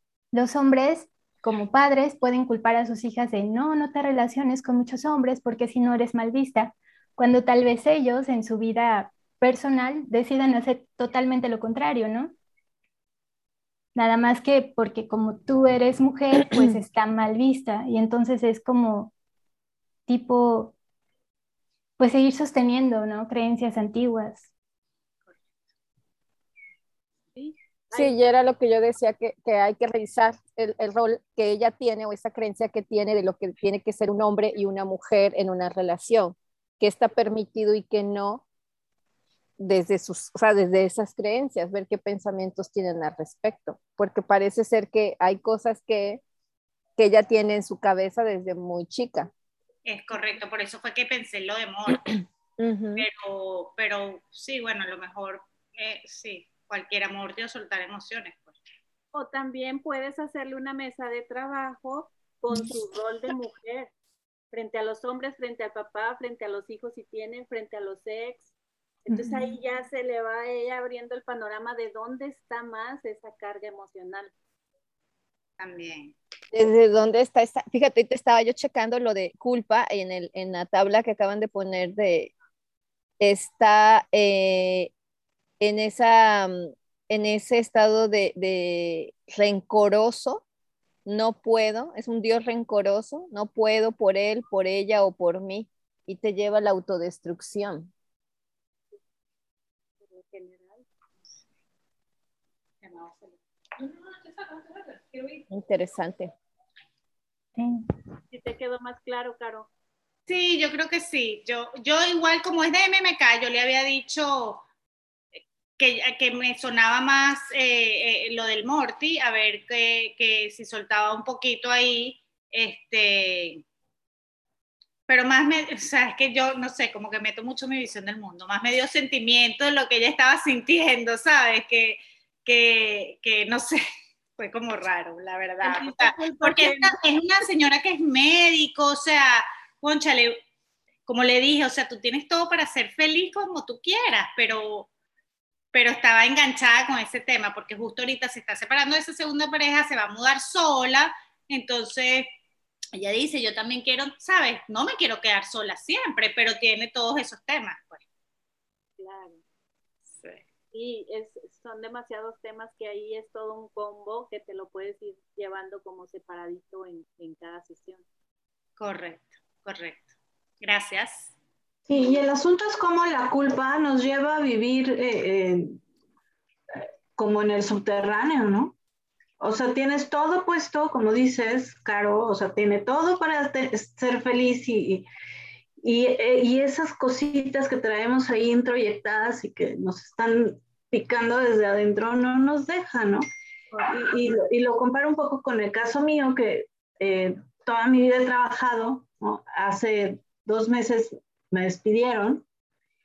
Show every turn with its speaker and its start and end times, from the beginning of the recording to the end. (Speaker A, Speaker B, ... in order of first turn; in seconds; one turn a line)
Speaker A: 0.3-12.3
Speaker A: 13.9-19.1
Speaker A: 20.1-20.8
Speaker A: 22.0-24.5
Speaker B: 27.3-28.2
Speaker C: 27.9-38.4
Speaker C: 39.6-46.2
Speaker C: 47.0-49.3
Speaker D: 49.9-52.1
Speaker C: 52.6-53.1
Speaker D: 53.0-58.6
Speaker B: 59.1-63.9
Speaker B: 64.5-68.5
Speaker B: 69.0-74.3
Speaker D: 75.6-76.2
Speaker C: 76.5-82.3
Speaker C: 83.2-84.9
Speaker C: 85.6-90.4
Speaker C: 91.1-97.9
Speaker B: 100.0-100.9
Speaker D: 102.8-105.4
Speaker C: 105.5-106.3
Speaker A: 107.6-107.8
Speaker B: 108.3-109.7
Speaker D: 110.3-114.6
Speaker D: 115.8-123.6
Speaker D: 125.1-133.8
Speaker D: 134.4-140.4
Speaker B: 135.6-137.0
Speaker D: 141.1-144.9
Speaker D: 145.7-152.3
Speaker D: 152.9-158.0
Speaker B: 159.0-159.4
Speaker D: 160.1-160.4
Speaker B: 160.7-168.0
Speaker D: 168.8-170.1
Speaker D: 170.6-171.3
Speaker E: 171.9-175.8
Speaker E: 177.2-178.8
Speaker E: 179.4-185.1
Speaker E: 185.8-193.2
Speaker E: 193.8-202.4